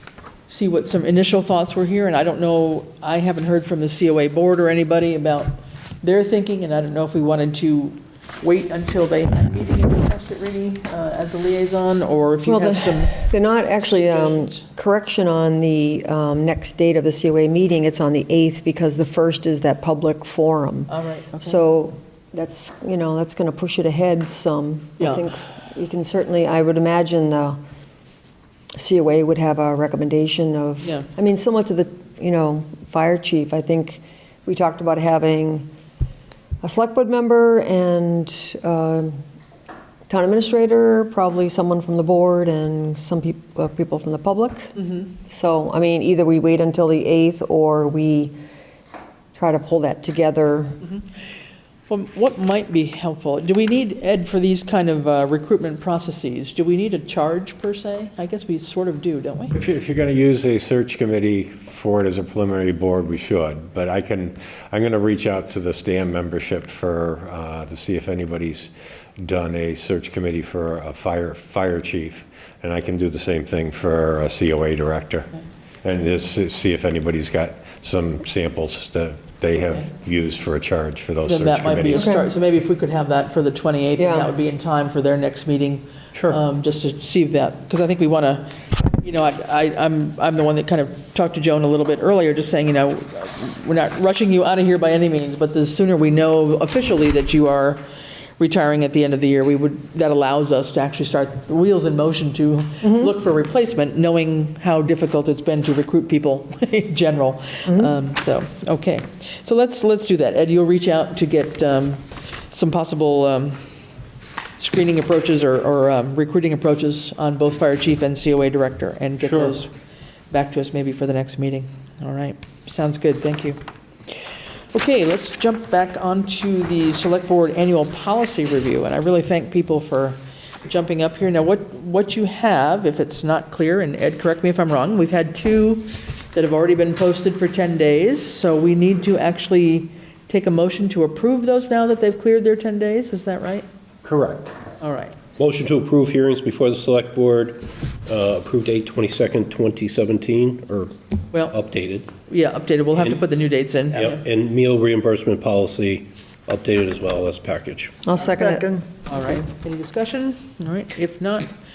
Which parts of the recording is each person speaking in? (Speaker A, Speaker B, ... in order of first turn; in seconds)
Speaker A: 0.5-14.6, 20.9-21.6, 25.0-25.2, 30.8-31.1, 44.8-45.0, 51.9-59.5, 81.2-97.8, 98.4-113.6, 114.6-119.7, 120.3-123.6, 124.7-143.7, 144.8-145.1, 152.3-154.2, 158.2-161.5
Speaker B: 12.4-27.6, 28.7-35.7, 36.6-39.2, 40.1-44.7, 45.3-48.4, 49.3-50.8, 81.9-82.3, 84.0-84.3, 102.8-103.1, 107.7-107.9, 158.0-158.9
Speaker C: 59.5-75.3, 75.8-82.1, 119.3-119.5, 144.0-144.5
Speaker D: 145.4-150.9, 151.5-152.1, 153.9-158.0